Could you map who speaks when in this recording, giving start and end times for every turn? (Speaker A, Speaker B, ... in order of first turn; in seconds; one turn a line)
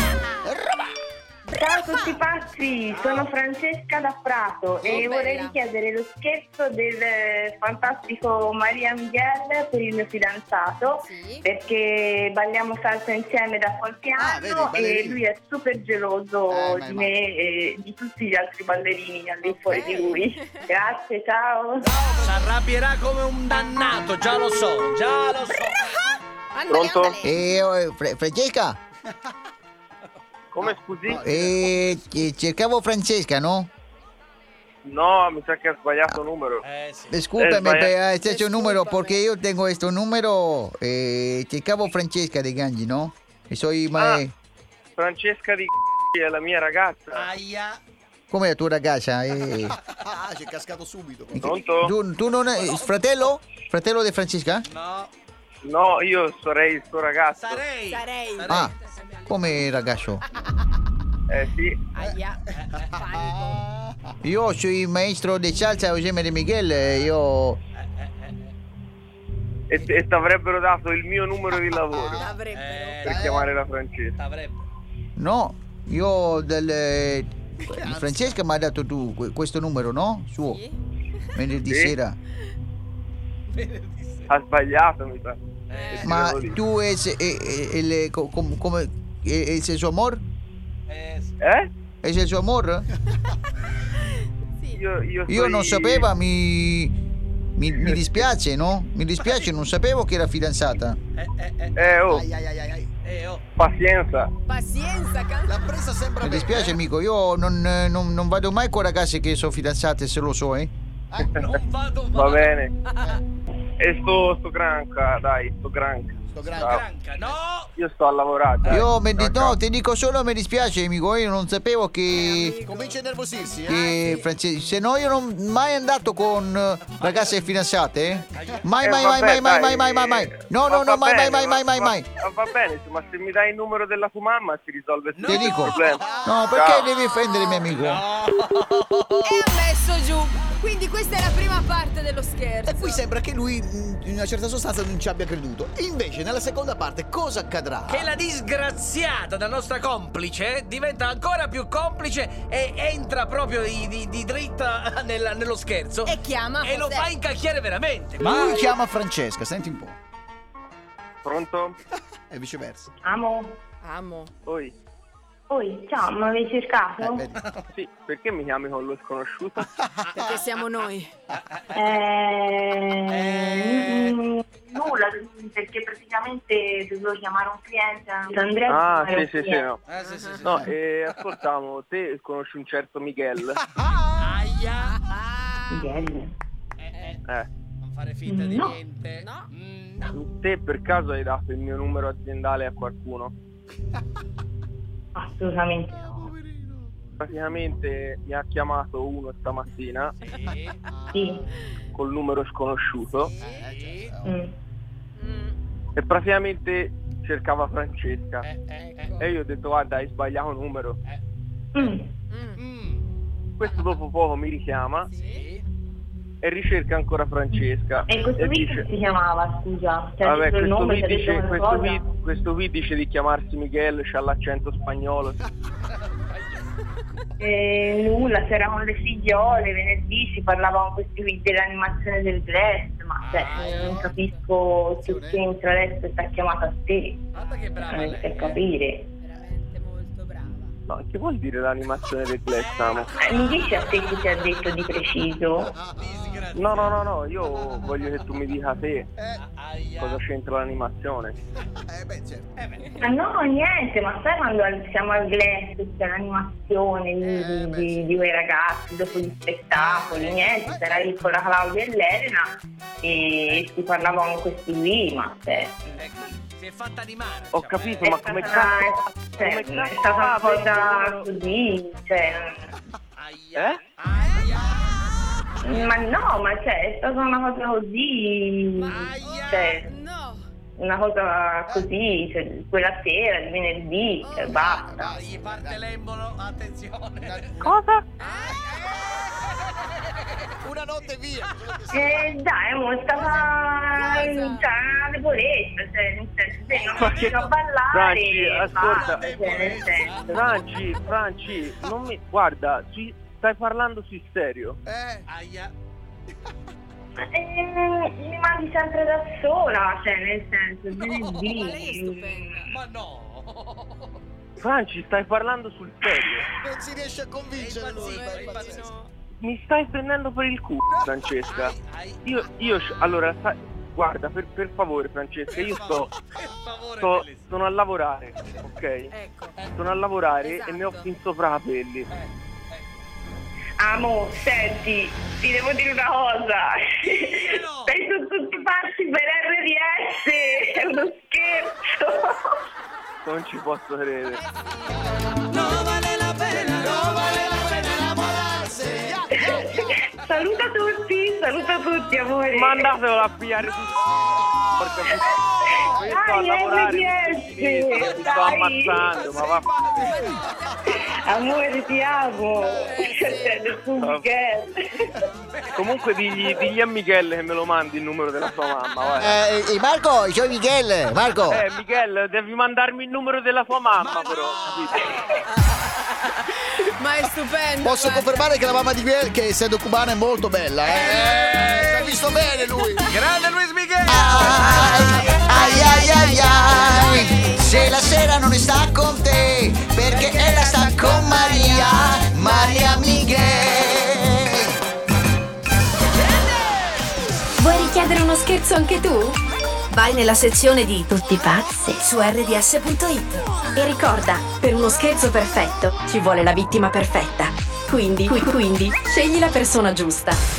Speaker A: 0.4-0.8
Speaker B: 1.5-21.9
Speaker C: 2.9-3.3
Speaker D: 4.9-5.6
Speaker D: 11.0-11.5
Speaker E: 14.2-15.2
Speaker E: 16.5-17.1
Speaker D: 19.7-20.7
Speaker E: 21.9-22.5
Speaker C: 22.2-25.9
Speaker D: 26.5-27.4
Speaker F: 26.7-27.2
Speaker A: 27.2-28.8
Speaker F: 30.5-31.3
Speaker E: 31.1-32.0
Speaker A: 31.2-33.7
Speaker F: 34.9-36.6
Speaker C: 36.6-37.2
Speaker A: 37.1-44.3
Speaker F: 37.4-38.0
Speaker D: 38.2-39.3
Speaker F: 44.0-44.2
Speaker F: 45.0-47.3
Speaker C: 47.1-47.8
Speaker A: 48.3-49.8
Speaker E: 49.7-51.4
Speaker A: 51.3-54.7
Speaker F: 51.4-51.9
Speaker C: 52.5-53.0
Speaker C: 54.6-55.1
Speaker F: 55.6-57.7
Speaker C: 57.4-58.7
Speaker D: 57.8-60.5
Speaker A: 59.3-60.2
Speaker F: 61.3-61.8
Speaker D: 61.9-63.7
Speaker C: 62.5-63.0
Speaker E: 63.0-64.1
Speaker A: 64.2-67.6
Speaker C: 67.8-68.5
Speaker F: 69.7-72.3
Speaker E: 72.0-72.2
Speaker D: 72.2-73.3
Speaker C: 72.5-73.3
Speaker F: 73.0-74.2
Speaker E: 73.1-73.5
Speaker C: 74.2-74.7
Speaker A: 75.2-80.6
Speaker E: 77.7-78.2
Speaker D: 80.5-80.8
Speaker A: 81.3-82.2
Speaker F: 81.7-82.0
Speaker C: 83.5-84.3
Speaker F: 84.3-86.6
Speaker C: 85.7-86.1
Speaker D: 85.7-86.1
Speaker A: 86.0-90.2
Speaker C: 90.9-91.3
Speaker F: 91.4-91.7
Speaker A: 92.0-92.9
Speaker D: 94.5-94.8
Speaker F: 94.7-96.1
Speaker A: 95.3-97.0
Speaker A: 97.6-101.0
Speaker F: 97.8-98.2
Speaker C: 101.2-102.0
Speaker F: 101.8-102.3
Speaker E: 102.1-102.9
Speaker C: 103.0-103.4
Speaker F: 103.6-104.3
Speaker D: 104.5-105.8
Speaker E: 105.5-106.7
Speaker A: 106.2-110.7
Speaker F: 111.2-111.4
Speaker C: 111.2-112.5
Speaker F: 112.1-112.7
Speaker D: 112.8-113.2
Speaker F: 113.8-116.8
Speaker E: 116.3-116.8
Speaker C: 116.5-117.7
Speaker F: 117.8-118.9
Speaker C: 118.7-118.9
Speaker A: 118.7-122.6
Speaker D: 122.1-124.3
Speaker E: 122.6-123.9
Speaker A: 123.7-132.1
Speaker C: 128.3-128.6
Speaker F: 128.8-136.9
Speaker C: 135.2-136.5
Speaker A: 135.3-138.0
Speaker C: 137.6-139.5
Speaker D: 139.2-143.0
Speaker E: 142.7-148.1
Speaker C: 147.9-158.6
Speaker D: 156.0-157.1
Speaker E: 158.2-160.0
Speaker D: 158.2-158.7
Speaker F: 161.2-161.8
Speaker E: 162.3-162.9
Speaker B: 163.0-163.6
Speaker D: 163.8-164.3
Speaker F: 164.5-164.8
Speaker B: 165.5-167.3
Speaker E: 167.0-167.3
Speaker F: 167.7-169.7
Speaker E: 169.8-170.4
Speaker D: 170.1-171.1
Speaker B: 171.7-179.7
Speaker C: 173.1-174.1
Speaker F: 178.7-179.8
Speaker C: 179.9-181.2
Speaker D: 180.0-180.5
Speaker F: 180.5-183.6
Speaker E: 183.8-184.1
Speaker C: 184.2-185.8
Speaker B: 185.7-186.3
Speaker C: 186.8-187.2
Speaker C: 187.8-190.1
Speaker B: 188.3-188.8
Speaker D: 189.1-189.5
Speaker F: 190.1-193.3
Speaker B: 195.2-196.3
Speaker E: 195.9-196.9
Speaker F: 197.2-200.1
Speaker C: 200.2-200.8
Speaker B: 201.1-201.4
Speaker F: 201.9-203.3
Speaker D: 203.4-203.7
Speaker E: 203.4-204.3
Speaker C: 203.4-204.1
Speaker B: 204.2-204.5
Speaker D: 205.2-205.6
Speaker F: 206.0-208.5
Speaker C: 208.4-209.1
Speaker D: 208.9-209.3
Speaker F: 209.2-211.0
Speaker B: 211.7-212.1
Speaker D: 212.3-212.6
Speaker C: 212.6-213.0
Speaker F: 213.6-215.1
Speaker D: 213.6-213.9
Speaker D: 215.1-215.5
Speaker C: 215.1-215.6
Speaker F: 216.4-218.9
Speaker B: 217.5-222.0
Speaker F: 220.2-225.4
Speaker C: 226.2-226.6
Speaker B: 227.4-237.2
Speaker C: 233.2-234.2
Speaker D: 233.7-234.3
Speaker C: 237.3-238.6
Speaker D: 237.4-238.2
Speaker B: 237.9-239.1
Speaker D: 239.2-240.8
Speaker F: 240.9-243.3
Speaker C: 242.6-243.6
Speaker B: 243.2-245.7
Speaker E: 245.7-246.4
Speaker C: 245.9-247.1
Speaker F: 246.6-249.1
Speaker C: 249.3-250.2
Speaker F: 250.0-251.4
Speaker E: 251.8-252.5
Speaker C: 252.6-253.0
Speaker B: 253.0-262.5
Speaker E: 257.3-258.1
Speaker E: 259.7-261.0
Speaker B: 263.0-266.0
Speaker C: 266.0-268.2
Speaker F: 267.5-271.3
Speaker B: 268.0-272.7
Speaker C: 273.2-275.1
Speaker D: 274.1-274.6
Speaker B: 275.6-279.9
Speaker C: 278.8-279.8
Speaker D: 279.8-280.5
Speaker B: 280.8-285.1
Speaker D: 284.2-284.6
Speaker E: 284.5-285.8
Speaker C: 285.0-287.6
Speaker E: 287.2-287.7
Speaker F: 287.6-288.1
Speaker D: 288.2-289.2
Speaker C: 288.2-289.0
Speaker C: 289.8-290.2
Speaker E: 290.6-292.3
Speaker B: 291.9-300.4
Speaker D: 293.3-294.6
Speaker F: 296.9-297.4
Speaker F: 297.9-299.7
Speaker C: 298.8-300.4
Speaker F: 300.3-304.8
Speaker E: 304.9-305.2
Speaker C: 305.3-305.7
Speaker B: 307.3-312.7
Speaker D: 311.4-312.6
Speaker C: 312.7-314.2
Speaker F: 314.6-316.5
Speaker E: 316.5-318.9
Speaker C: 317.5-318.9
Speaker D: 318.0-319.1
Speaker F: 319.4-326.1
Speaker C: 321.5-322.5
Speaker C: 325.5-327.5
Speaker F: 327.0-329.1
Speaker D: 329.1-329.7
Speaker F: 329.8-332.1
Speaker D: 330.4-331.1
Speaker C: 332.1-332.9
Speaker B: 333.8-342.5
Speaker C: 337.0-337.9
Speaker F: 343.2-344.4
Speaker D: 344.5-344.8
Speaker C: 345.5-347.6
Speaker E: 346.6-349.6
Speaker C: 348.9-349.2
Speaker B: 349.4-353.0
Speaker F: 352.5-354.1
Speaker F: 354.8-359.8
Speaker B: 355.7-359.1
Speaker E: 359.9-360.3
Speaker D: 360.0-360.8
Speaker B: 360.9-365.2
Speaker D: 362.9-363.6
Speaker F: 364.0-364.3
Speaker F: 365.8-369.4
Speaker A: 369.2-371.6
Speaker F: 371.5-375.2
Speaker C: 374.0-375.4
Speaker D: 376.3-378.5
Speaker E: 377.8-383.0
Speaker C: 380.9-382.0
Speaker C: 383.1-385.0
Speaker A: 384.1-394.7
Speaker D: 384.3-387.9
Speaker D: 390.0-392.9
Speaker G: 397.6-399.4
Speaker G: 399.9-410.4